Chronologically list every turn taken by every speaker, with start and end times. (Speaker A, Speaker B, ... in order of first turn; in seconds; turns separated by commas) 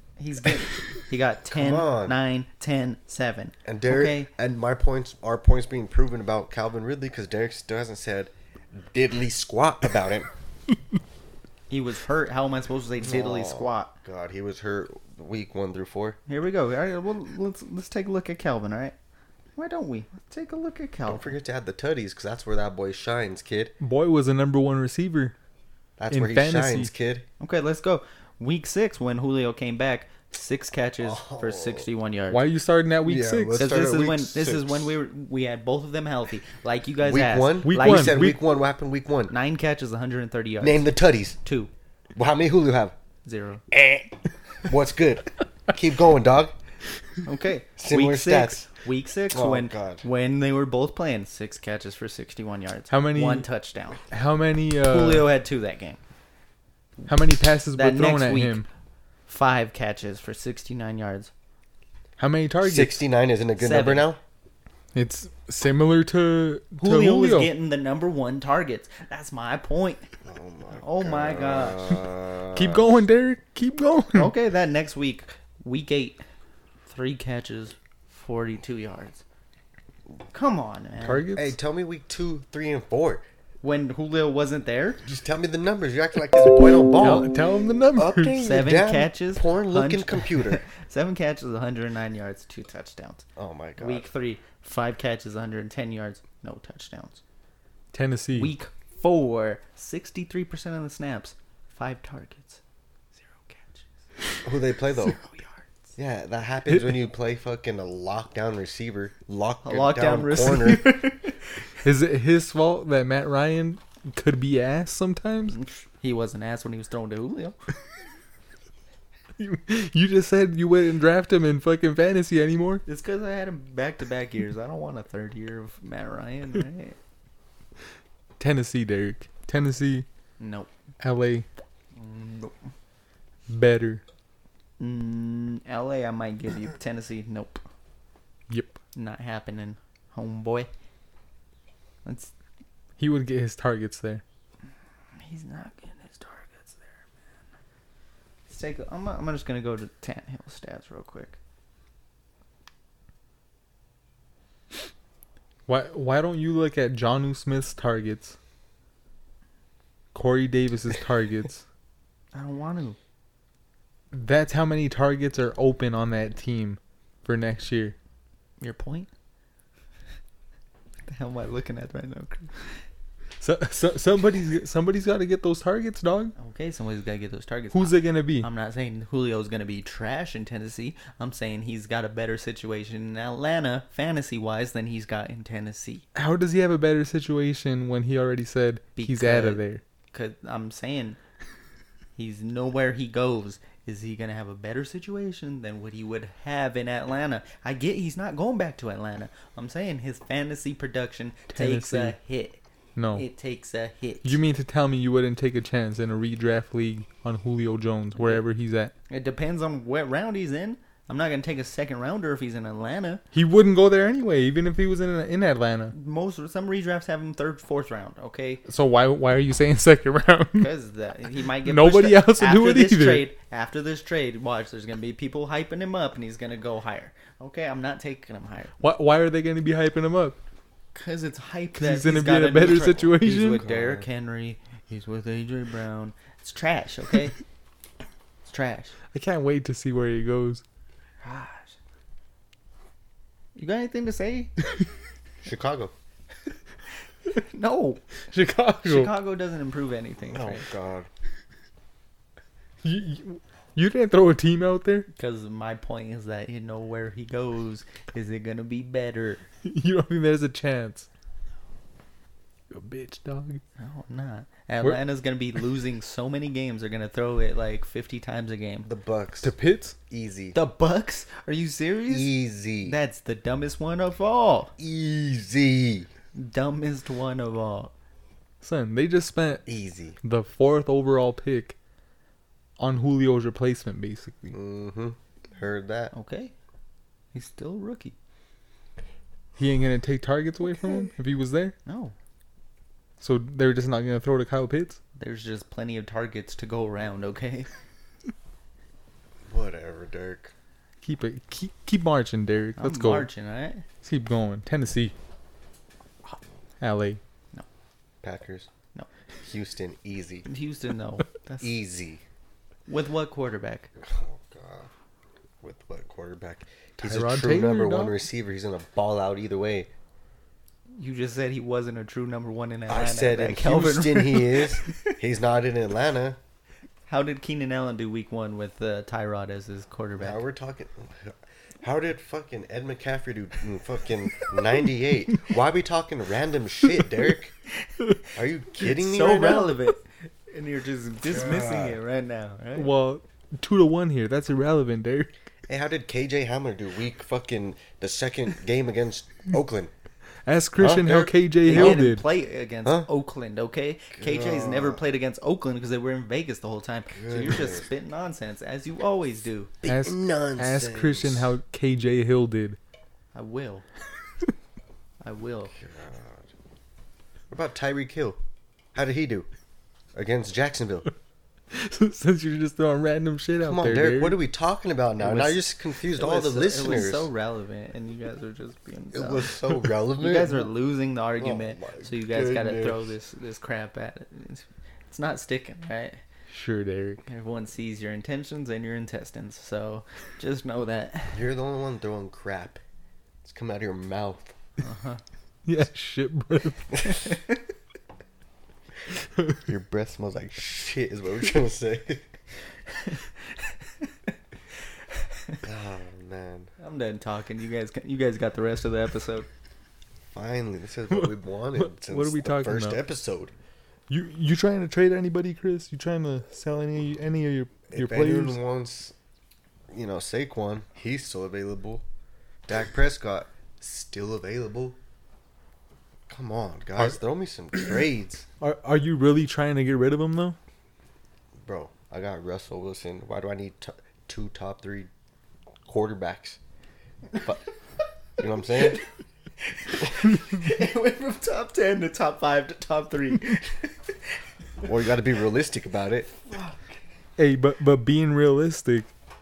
Speaker A: 0.2-4.3, Speaker B: 1.5-2.2, Speaker B: 3.6-10.3, Speaker A: 11.7-13.9, Speaker B: 13.0-16.2, Speaker A: 16.3-18.9, Speaker A: 19.6-21.3, Speaker B: 21.1-23.8, Speaker C: 23.8-25.4, Speaker B: 26.0-27.3, Speaker C: 26.1-26.9, Speaker A: 27.4-32.4, Speaker B: 31.0-31.9, Speaker C: 32.3-33.6, Speaker B: 33.0-34.9, Speaker A: 33.6-38.3, Speaker B: 37.0-39.3, Speaker C: 37.6-38.4, Speaker A: 39.3-41.7, Speaker B: 40.6-41.4, Speaker B: 42.2-43.0, Speaker A: 43.2-43.6, Speaker B: 43.8-44.0, Speaker B: 44.6-46.5, Speaker A: 47.2-54.0, Speaker B: 47.8-48.7, Speaker B: 49.3-50.0, Speaker C: 52.9-53.5, Speaker C: 54.1-55.3, Speaker A: 54.9-56.0, Speaker C: 57.1-58.7, Speaker A: 57.7-58.6, Speaker A: 59.3-61.3, Speaker C: 62.2-63.0, Speaker B: 62.6-64.2, Speaker A: 63.6-64.1, Speaker C: 64.9-67.5, Speaker A: 66.8-70.1, Speaker B: 70.2-72.9, Speaker A: 70.7-72.0, Speaker C: 72.5-74.3, Speaker A: 74.1-76.2, Speaker A: 76.9-79.2, Speaker A: 80.3-81.3, Speaker C: 81.0-81.5, Speaker B: 81.3-83.2, Speaker A: 83.6-85.0, Speaker B: 85.0-87.3, Speaker C: 87.0-88.4, Speaker B: 87.9-90.6, Speaker A: 88.4-93.2, Speaker B: 93.4-94.1, Speaker A: 93.8-97.2, Speaker C: 97.9-98.5, Speaker A: 98.3-102.6, Speaker A: 103.2-103.9, Speaker B: 104.5-105.2, Speaker A: 105.0-105.6, Speaker B: 106.0-110.9, Speaker C: 106.7-107.0, Speaker A: 109.6-111.5, Speaker C: 111.8-115.6, Speaker A: 115.5-117.6, Speaker C: 119.4-122.8, Speaker A: 122.9-127.0, Speaker C: 128.4-130.1, Speaker A: 130.4-130.7, Speaker C: 131.0-131.5, Speaker A: 132.0-132.7, Speaker C: 133.5-134.0, Speaker A: 134.8-137.6, Speaker C: 138.5-138.8, Speaker A: 138.9-140.7, Speaker A: 142.1-142.3, Speaker C: 143.0-144.2, Speaker A: 145.2-147.1, Speaker A: 148.5-151.4, Speaker C: 155.7-158.4, Speaker C: 160.1-161.6, Speaker A: 162.3-163.0, Speaker C: 164.1-168.0, Speaker A: 168.6-169.1, Speaker A: 171.1-172.8, Speaker C: 173.4-176.3, Speaker A: 176.4-186.1, Speaker C: 177.7-178.5, Speaker C: 186.2-189.8, Speaker A: 189.0-191.2, Speaker A: 192.2-202.6, Speaker C: 201.5-202.2, Speaker C: 203.0-203.2, Speaker A: 203.1-204.4, Speaker C: 204.2-208.9, Speaker A: 208.2-208.4, Speaker A: 209.1-213.2, Speaker C: 213.3-215.9, Speaker A: 215.9-218.6, Speaker C: 218.7-220.7, Speaker A: 220.6-228.7, Speaker C: 221.6-223.3, Speaker C: 228.8-230.4, Speaker A: 230.9-237.4, Speaker C: 231.8-233.7, Speaker B: 233.5-234.1, Speaker A: 238.5-238.9, Speaker C: 239.1-240.6, Speaker A: 241.2-241.8, Speaker A: 243.6-244.5, Speaker B: 245.4-245.9, Speaker A: 247.3-248.0, Speaker C: 248.3-249.1, Speaker A: 248.8-250.7, Speaker B: 250.3-251.1, Speaker C: 252.8-255.1, Speaker A: 255.1-259.4, Speaker C: 259.6-261.1, Speaker C: 262.7-263.6, Speaker A: 263.8-268.9, Speaker B: 268.9-269.5, Speaker C: 269.4-270.0, Speaker B: 270.1-270.6, Speaker A: 270.5-274.7, Speaker B: 272.1-273.0, Speaker B: 274.8-276.1, Speaker A: 276.4-277.9, Speaker C: 278.6-279.6, Speaker B: 279.7-280.2, Speaker C: 280.2-281.8, Speaker C: 282.8-284.6, Speaker B: 284.5-286.1, Speaker A: 286.1-286.5, Speaker A: 287.3-288.1, Speaker C: 289.6-291.8, Speaker A: 291.9-292.1, Speaker C: 293.2-295.0, Speaker A: 295.2-297.7, Speaker B: 299.5-300.5, Speaker C: 301.0-303.3, Speaker A: 302.8-303.8, Speaker C: 304.0-305.1, Speaker C: 306.8-307.2, Speaker B: 308.2-308.7, Speaker B: 309.4-310.5, Speaker A: 310.4-311.7, Speaker B: 311.6-312.2, Speaker A: 312.9-313.9, Speaker B: 314.0-314.9, Speaker B: 315.6-319.9, Speaker C: 317.0-318.2, Speaker A: 321.0-325.1, Speaker B: 322.9-326.4, Speaker A: 327.1-330.4, Speaker B: 330.2-337.5, Speaker B: 338.4-339.8, Speaker A: 338.8-342.9, Speaker B: 341.3-342.0, Speaker C: 342.8-345.3, Speaker B: 345.7-349.9, Speaker C: 350.5-352.2, Speaker B: 350.8-352.1, Speaker A: 351.6-359.7, Speaker B: 354.1-355.1, Speaker B: 357.1-357.9, Speaker B: 359.8-361.5, Speaker C: 359.9-362.8, Speaker A: 363.3-363.9, Speaker A: 365.2-365.7, Speaker B: 365.8-366.5, Speaker B: 367.5-368.4, Speaker B: 368.9-369.5, Speaker B: 370.1-371.1, Speaker C: 371.7-374.4, Speaker B: 373.6-377.3, Speaker A: 376.1-379.6, Speaker B: 379.1-380.7, Speaker A: 380.2-386.2, Speaker B: 381.4-383.1, Speaker C: 386.5-387.2, Speaker A: 387.3-391.5, Speaker B: 391.3-392.8, Speaker B: 393.4-394.6, Speaker A: 394.8-395.2, Speaker C: 395.7-397.4, Speaker B: 399.6-402.3, Speaker B: 405.6-406.7, Speaker A: 406.8-409.5, Speaker B: 410.3-413.5, Speaker C: 411.1-413.0, Speaker C: 414.1-418.6, Speaker B: 417.9-419.1, Speaker B: 419.9-422.0, Speaker B: 422.7-425.0, Speaker B: 426.3-428.5, Speaker C: 428.6-430.6, Speaker B: 431.6-435.1, Speaker B: 435.9-436.6, Speaker B: 438.4-439.0, Speaker A: 439.6-444.2, Speaker B: 444.8-446.3, Speaker A: 446.5-447.0, Speaker C: 447.4-449.1